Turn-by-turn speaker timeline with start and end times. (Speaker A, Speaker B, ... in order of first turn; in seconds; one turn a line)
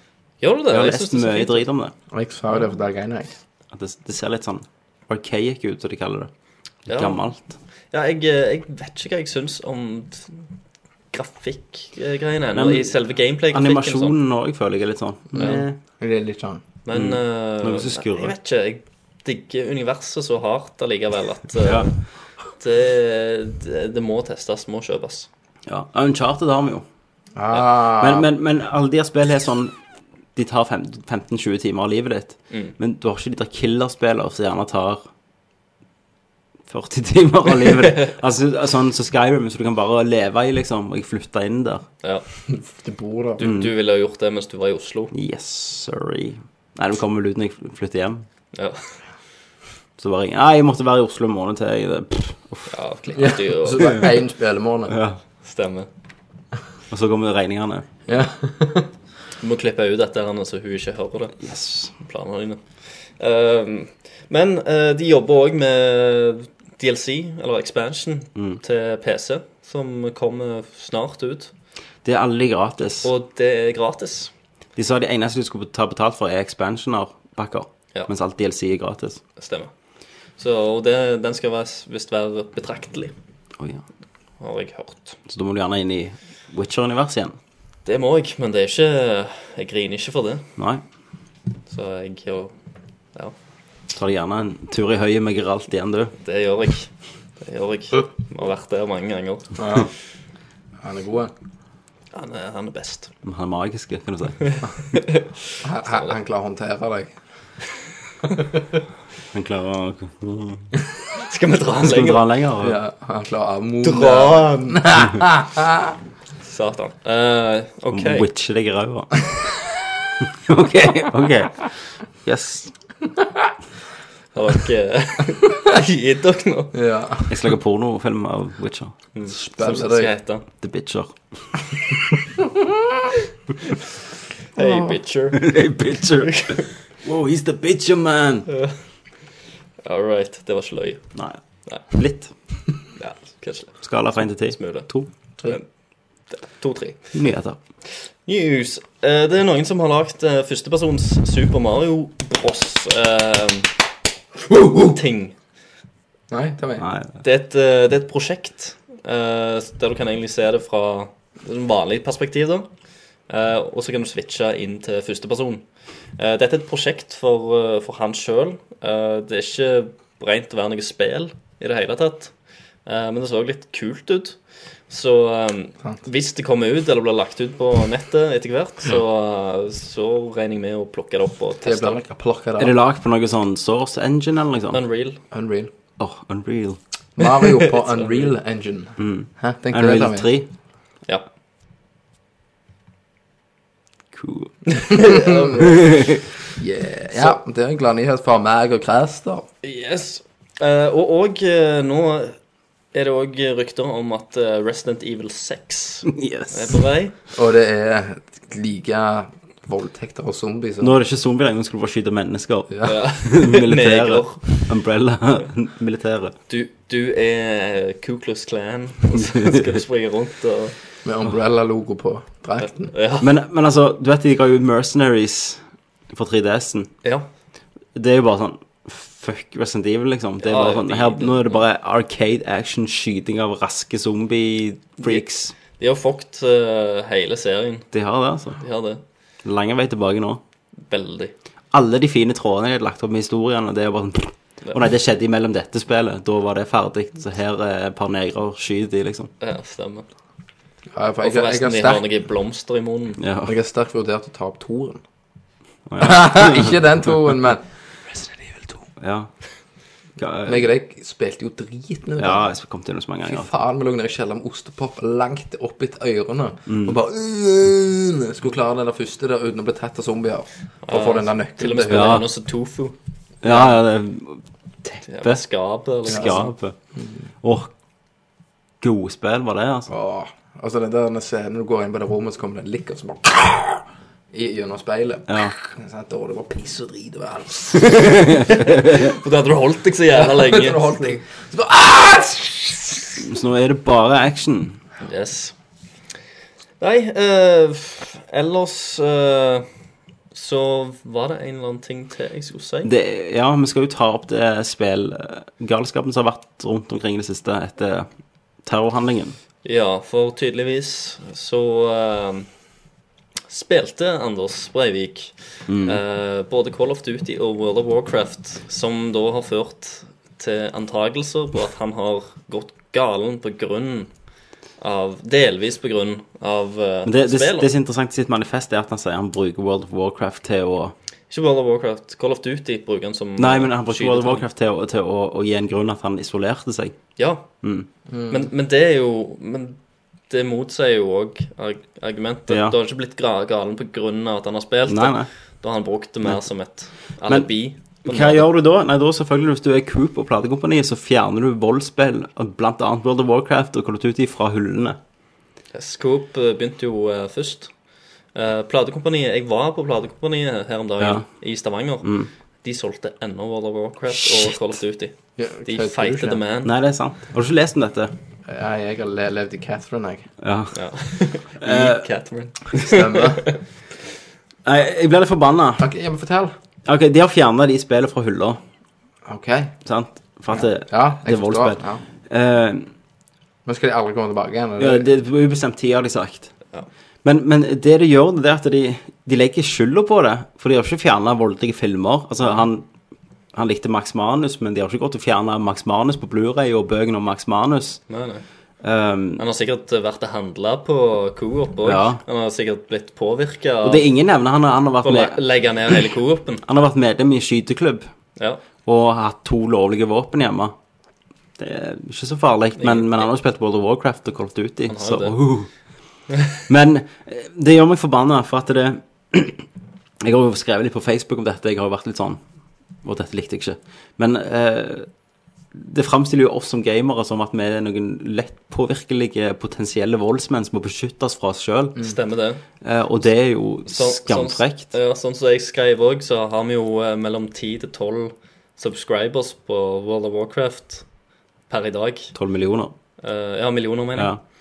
Speaker A: 0.4-1.7
Speaker B: 0.7-1.9
Speaker C: 2.1-3.4
Speaker B: 3.7-6.3
Speaker B: 6.9-7.5
Speaker A: 6.9-7.2
Speaker A: 7.9-10.4
Speaker A: 11.1-14.1
Speaker B: 12.6-13.0
Speaker B: 13.5-15.8
Speaker C: 15.3-16.6
Speaker A: 15.4-15.6
Speaker A: 16.9-21.9
Speaker B: 16.9-18.4
Speaker B: 21.6-21.9
Speaker A: 22.6-25.3
Speaker B: 25.7-26.8
Speaker C: 27.4-28.3
Speaker B: 28.0-29.7
Speaker B: 30.4-35.0
Speaker B: 36.7-41.9
Speaker A: 37.6-38.1
Speaker C: 42.5-43.4
Speaker A: 43.4-45.1
Speaker B: 43.4-43.7
Speaker B: 45.1-48.2
Speaker A: 48.5-48.8
Speaker B: 50.0-52.7
Speaker A: 52.7-54.1
Speaker C: 53.2-55.0
Speaker B: 54.9-55.2
Speaker A: 55.4-55.9
Speaker B: 56.9-57.9
Speaker C: 58.1-58.9
Speaker A: 59.4-61.4
Speaker B: 61.4-61.9
Speaker A: 62.0-71.5
Speaker B: 68.4-68.6
Speaker B: 72.0-73.1
Speaker A: 73.0-74.3
Speaker B: 74.8-79.2
Speaker A: 79.4-79.7
Speaker A: 80.4-83.1
Speaker B: 83.6-83.8
Speaker A: 84.4-85.2
Speaker B: 85.3-87.4
Speaker A: 87.8-90.5
Speaker B: 90.6-90.8
Speaker A: 91.7-92.5
Speaker B: 93.9-96.1
Speaker A: 96.2-99.5
Speaker C: 99.6-99.9
Speaker C: 100.8-101.3
Speaker A: 102.1-103.1
Speaker B: 103.2-104.6
Speaker A: 104.5-105.3
Speaker C: 105.6-107.2
Speaker A: 105.8-106.1
Speaker B: 109.3-110.7
Speaker A: 111.2-112.2
Speaker B: 111.8-112.8
Speaker C: 112.6-116.0
Speaker A: 113.8-114.8
Speaker A: 116.4-118.3
Speaker B: 117.9-119.3
Speaker B: 120.4-122.7
Speaker A: 124.3-126.7
Speaker C: 126.7-127.3
Speaker B: 127.3-128.9
Speaker A: 129.2-130.4
Speaker C: 129.3-130.1
Speaker B: 130.6-131.2
Speaker A: 134.6-135.5
Speaker B: 135.3-138.5
Speaker A: 136.3-136.6
Speaker A: 139.8-141.0
Speaker B: 141.2-142.3
Speaker A: 143.0-143.8
Speaker B: 143.8-145.1
Speaker A: 144.5-144.9
Speaker A: 146.3-147.1
Speaker B: 147.1-147.6
Speaker A: 148.2-153.7
Speaker C: 154.5-155.0
Speaker A: 154.9-155.3
Speaker C: 156.3-156.8
Speaker B: 156.8-157.2
Speaker A: 157.2-162.7
Speaker A: 163.3-165.6
Speaker A: 166.2-172.3
Speaker A: 172.9-174.4
Speaker A: 174.9-182.0
Speaker C: 181.6-182.8
Speaker B: 182.6-184.8
Speaker A: 184.7-185.2
Speaker C: 185.3-185.7
Speaker B: 186.0-186.8
Speaker C: 187.2-190.3
Speaker A: 187.7-188.3
Speaker B: 189.0-190.5
Speaker B: 194.1-194.8
Speaker A: 194.7-195.9
Speaker C: 194.9-195.7
Speaker B: 195.6-196.2
Speaker C: 196.6-199.5
Speaker A: 199.6-202.4
Speaker A: 202.9-207.2
Speaker B: 206.1-206.8
Speaker C: 207.3-211.0
Speaker B: 210.8-216.3
Speaker A: 212.8-214.5
Speaker A: 216.5-220.8
Speaker B: 219.3-219.7
Speaker C: 221.1-222.9
Speaker A: 222.6-223.3
Speaker B: 223.2-225.6
Speaker B: 226.1-226.9
Speaker B: 228.0-235.6
Speaker A: 230.4-231.6
Speaker A: 235.0-237.9
Speaker B: 237.9-238.6
Speaker A: 238.6-239.0
Speaker B: 239.4-240.4
Speaker A: 240.9-241.3
Speaker B: 241.7-249.3
Speaker A: 249.4-250.1
Speaker C: 250.9-252.1
Speaker A: 251.2-253.2
Speaker B: 253.2-253.5
Speaker C: 253.5-255.0
Speaker B: 255.9-256.8
Speaker C: 256.0-257.6
Speaker C: 258.5-258.7
Speaker B: 259.0-259.3
Speaker B: 260.2-260.7
Speaker C: 260.5-262.5
Speaker B: 262.2-263.5
Speaker C: 263.2-272.2
Speaker B: 266.7-267.0
Speaker A: 270.9-272.9
Speaker B: 271.9-272.3
Speaker B: 273.4-275.4
Speaker A: 275.1-276.5
Speaker B: 276.1-276.8
Speaker B: 277.4-277.7
Speaker B: 278.8-279.9
Speaker C: 279.9-288.3
Speaker B: 285.3-285.6
Speaker B: 288.0-289.1
Speaker A: 288.9-291.0
Speaker C: 290.1-293.2
Speaker B: 293.2-294.8
Speaker A: 295.0-295.5
Speaker A: 296.8-299.7
Speaker A: 300.3-302.9
Speaker B: 302.8-308.1
Speaker B: 308.6-309.4
Speaker A: 309.6-312.5
Speaker A: 313.5-324.1
Speaker B: 315.7-316.0
Speaker A: 324.8-327.7
Speaker B: 327.1-330.9
Speaker A: 331.3-334.4
Speaker B: 333.4-337.0
Speaker A: 337.2-337.4
Speaker B: 337.6-337.9
Speaker C: 338.1-338.5
Speaker A: 338.3-339.8
Speaker A: 340.3-348.5
Speaker B: 342.5-342.8
Speaker B: 344.9-345.3
Speaker B: 347.3-355.0
Speaker A: 355.7-357.7
Speaker A: 358.4-362.1
Speaker B: 361.0-361.3
Speaker B: 362.0-362.3
Speaker A: 362.6-365.1
Speaker B: 364.3-364.5
Speaker C: 365.4-366.4
Speaker A: 365.7-366.7
Speaker B: 366.6-368.1
Speaker C: 368.5-370.3
Speaker B: 370.4-370.8
Speaker A: 370.7-373.6
Speaker B: 371.6-372.1
Speaker C: 372.8-373.5
Speaker B: 374.7-375.9
Speaker C: 375.8-376.5
Speaker B: 376.9-378.6
Speaker C: 379.3-379.8
Speaker B: 379.9-382.9
Speaker C: 380.5-382.0
Speaker C: 383.7-385.1
Speaker B: 384.8-386.5
Speaker B: 387.2-392.9
Speaker B: 393.5-398.0
Speaker A: 398.1-398.4
Speaker B: 398.8-399.4
Speaker A: 399.4-404.1
Speaker B: 401.9-402.2
Speaker B: 403.8-405.4
Speaker A: 405.0-406.6
Speaker B: 406.6-408.1
Speaker B: 408.9-410.7
Speaker B: 411.6-415.7
Speaker A: 412.8-413.3
Speaker A: 414.9-415.4
Speaker B: 416.7-419.6
Speaker B: 420.2-422.4
Speaker B: 423.0-425.1
Speaker B: 425.7-432.0
Speaker A: 432.0-432.6
Speaker B: 432.8-434.9
Speaker A: 433.9-441.1
Speaker A: 441.7-442.3
Speaker B: 442.3-442.9
Speaker A: 443.2-444.3